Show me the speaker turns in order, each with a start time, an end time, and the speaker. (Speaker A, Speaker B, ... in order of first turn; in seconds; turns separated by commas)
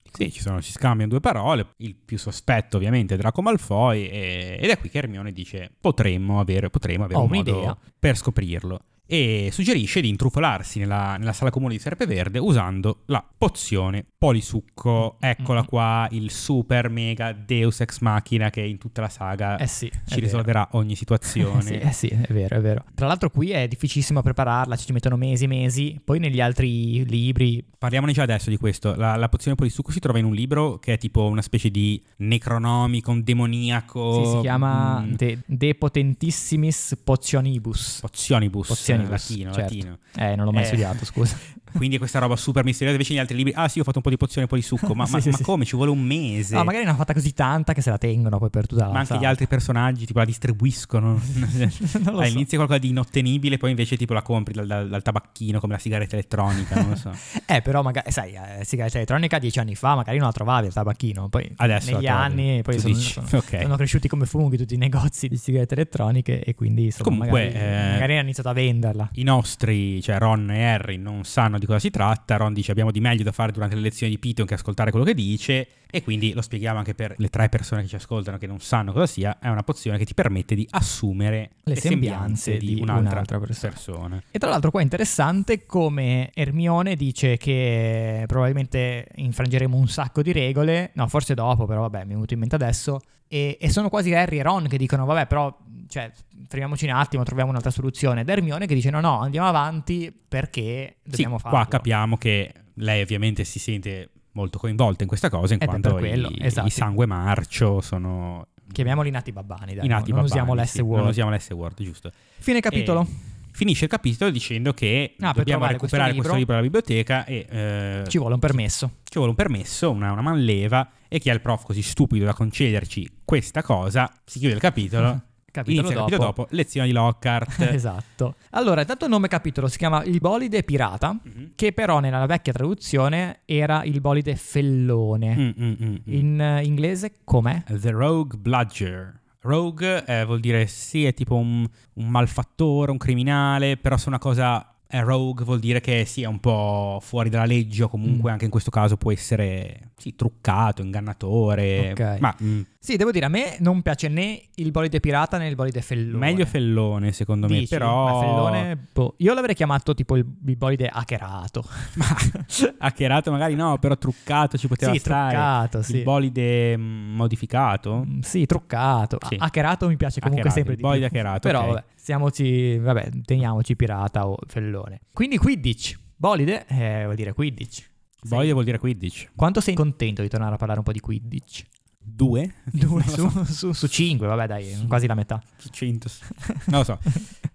Speaker A: 0.1-21.9, Speaker B: 7.1-7.8, Speaker B: 15.4-15.7, Speaker B: 19.6-20.5, Speaker B: 21.4-27.7, Speaker A: 27.8-35.2, Speaker B: 34.1-38.0, Speaker A: 38.0-40.0, Speaker B: 38.7-41.6, Speaker A: 40.5-41.0, Speaker A: 41.7-46.7, Speaker B: 44.8-45.5, Speaker B: 46.5-49.4, Speaker A: 48.9-57.2, Speaker B: 51.4-52.5, Speaker B: 56.8-69.1, Speaker A: 61.6-63.7, Speaker A: 67.0-68.1, Speaker A: 69.2-84.2, Speaker B: 81.7-83.8, Speaker B: 84.3-101.9, Speaker A: 101.1-108.8, Speaker B: 105.6-106.9, Speaker B: 108.7-111.2, Speaker A: 109.8-112.2, Speaker B: 112.4-113.1, Speaker A: 112.7-118.2, Speaker B: 115.2-116.5, Speaker B: 118.1-119.0, Speaker A: 119.1-127.8, Speaker B: 125.5-126.4, Speaker B: 127.5-135.4, Speaker A: 135.4-136.3, Speaker B: 136.1-137.7, Speaker A: 137.7-152.7, Speaker B: 151.8-152.3, Speaker B: 152.8-156.6, Speaker A: 156.1-158.7, Speaker B: 157.4-162.4, Speaker A: 162.0-168.1, Speaker B: 164.8-166.1, Speaker B: 168.0-178.5, Speaker A: 170.2-171.8, Speaker A: 178.2-179.3, Speaker B: 179.4-181.7, Speaker A: 182.1-183.4, Speaker B: 182.7-185.5, Speaker A: 185.6-187.1, Speaker B: 186.4-186.7